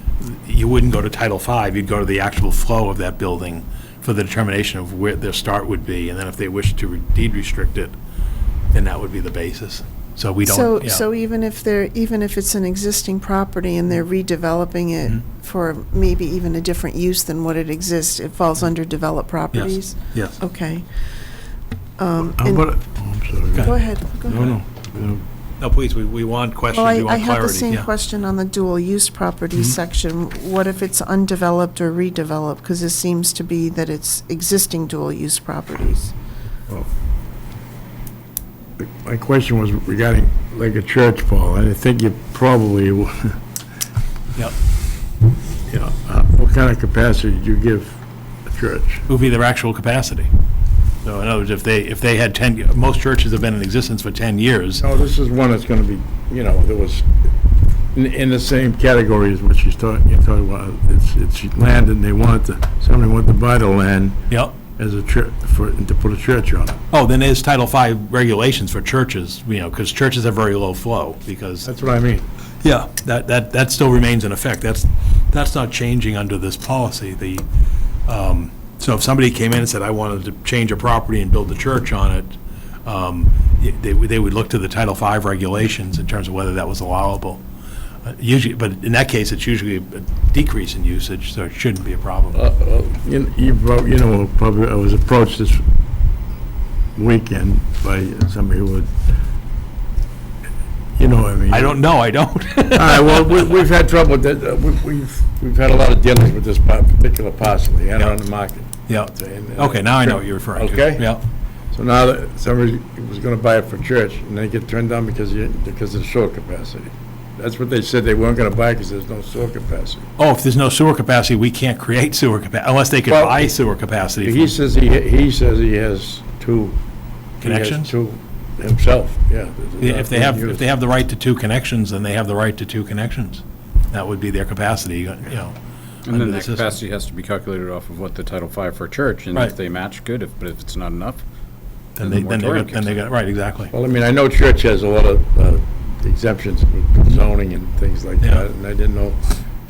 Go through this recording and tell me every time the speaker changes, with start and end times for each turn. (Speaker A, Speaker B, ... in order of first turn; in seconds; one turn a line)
Speaker A: 0.2-8.0
Speaker A: 8.7-11.0
Speaker B: 10.4-20.9
Speaker A: 19.5-20.4
Speaker B: 22.0-22.7
Speaker C: 22.2-23.8
Speaker B: 23.6-24.4
Speaker C: 24.3-25.2
Speaker A: 24.3-24.6
Speaker A: 25.6-27.9
Speaker B: 26.7-36.1
Speaker C: 38.8-43.4
Speaker C: 45.7-49.0
Speaker A: 49.1-50.3
Speaker A: 51.0-54.8
Speaker C: 54.8-57.1
Speaker C: 57.9-66.8
Speaker A: 64.3-64.5
Speaker A: 66.9-71.7
Speaker C: 71.6-72.2
Speaker A: 72.6-77.4
Speaker A: 78.1-87.4
Speaker A: 88.0-92.4
Speaker C: 92.3-95.7
Speaker C: 97.0-98.9
Speaker C: 101.0-101.8
Speaker A: 101.5-103.5
Speaker C: 102.7-111.2
Speaker A: 108.9-111.2
Speaker C: 111.7-120.1
Speaker A: 120.2-124.5
Speaker C: 123.1-123.5
Speaker C: 124.2-126.8
Speaker C: 127.4-130.6
Speaker A: 127.4-127.9
Speaker A: 129.8-135.6
Speaker D: 136.1-141.2
Speaker A: 136.1-136.8
Speaker A: 142.0-143.7
Speaker D: 142.0-143.0
Speaker C: 143.7-149.3